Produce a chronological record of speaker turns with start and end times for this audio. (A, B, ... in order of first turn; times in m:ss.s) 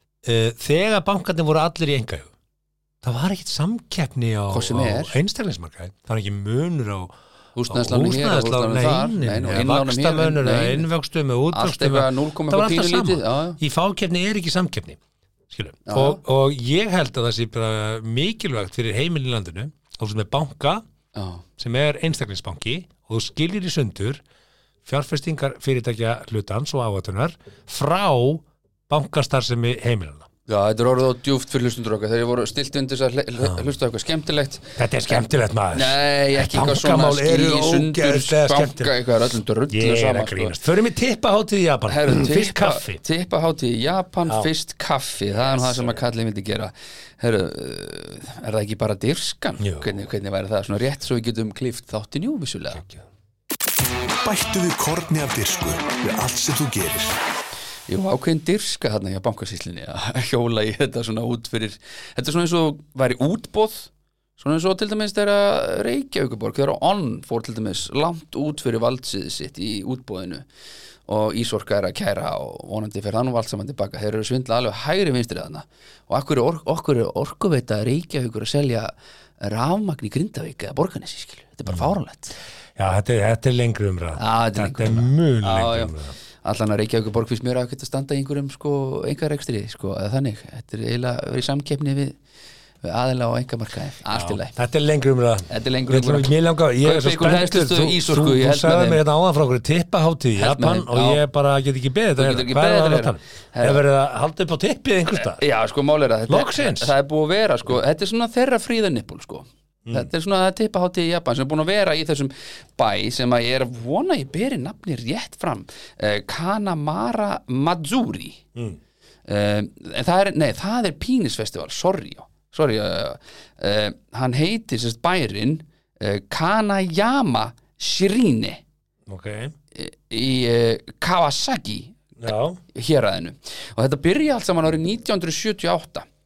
0:00.2-0:02.3 A
0:03.0-0:07.1 A
0:04.5-0:05.2 B
0:07.6-0:10.9 B
0:07.7-0:15.0 A
0:11.5-0:13.6 B
0:15.5-0:20.8 A
0:15.9-0:16.2 B
0:21.2-0:21.4 B
0:21.6-0:24.2 A
0:24.9-0:30.3 A
0:30.5-0:35.2 B
0:33.4-0:33.7 A
0:34.8-0:39.0 A
0:35.7-0:40.6 B
0:39.7-0:43.0 A
0:41.9-0:52.8 B
0:45.6-0:46.0 A
0:49.6-0:49.9 A
0:54.2-0:57.2 C
0:57.9-1:10.5 B
1:11.1-1:22.4 B
1:22.8-1:26.2 A
1:24.2-1:32.2 B
1:32.8-1:34.6 B
1:34.1-1:45.4 A
1:35.5-1:39.0 B
1:40.4-1:41.2 B
1:42.2-1:43.8 B
1:45.2-1:58.4 B
1:46.3-1:46.9 A
1:59.3-2:08.6 B
2:09.1-2:09.5 A
2:09.8-2:12.0 B
2:12.2-2:12.6 A
2:12.7-2:16.1 B